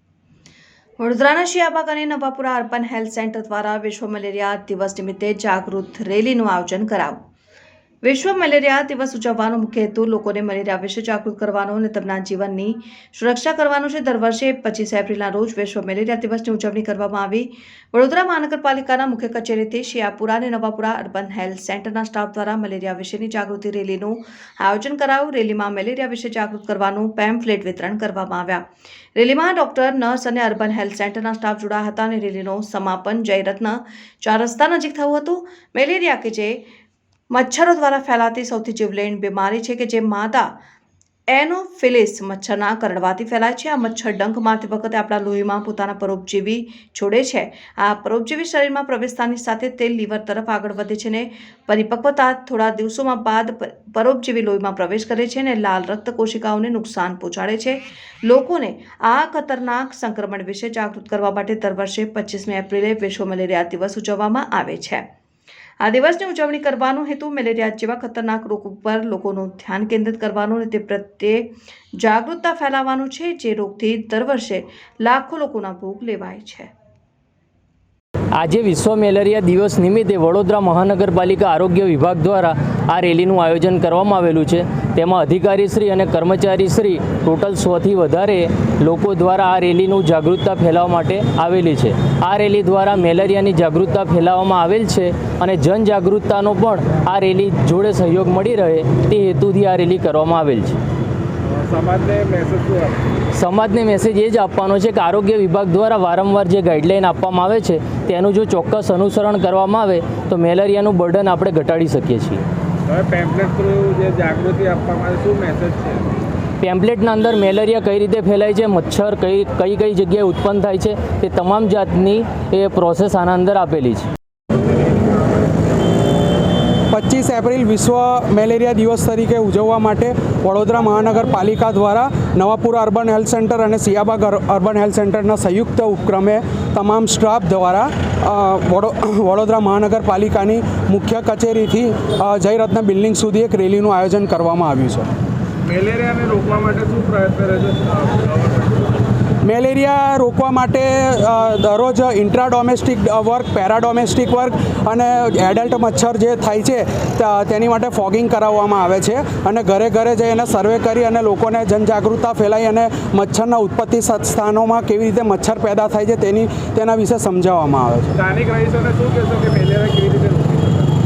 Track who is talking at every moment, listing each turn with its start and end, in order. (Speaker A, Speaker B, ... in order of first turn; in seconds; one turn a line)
Speaker A: 1.0-7.2
Speaker A: 8.0-36.6
Speaker A: 37.3-40.5
Speaker A: 41.3-65.0
Speaker A: 65.8-76.7
Speaker B: 78.4-100.8
Speaker C: 101.5-103.0
Speaker B: 103.3-112.5
Speaker C: 112.9-116.0
Speaker B: 116.6-124.1
Speaker D: 126.9-145.1
Speaker C: 145.7-148.9
Speaker D: 149.4-168.1
Speaker C: 168.2-170.9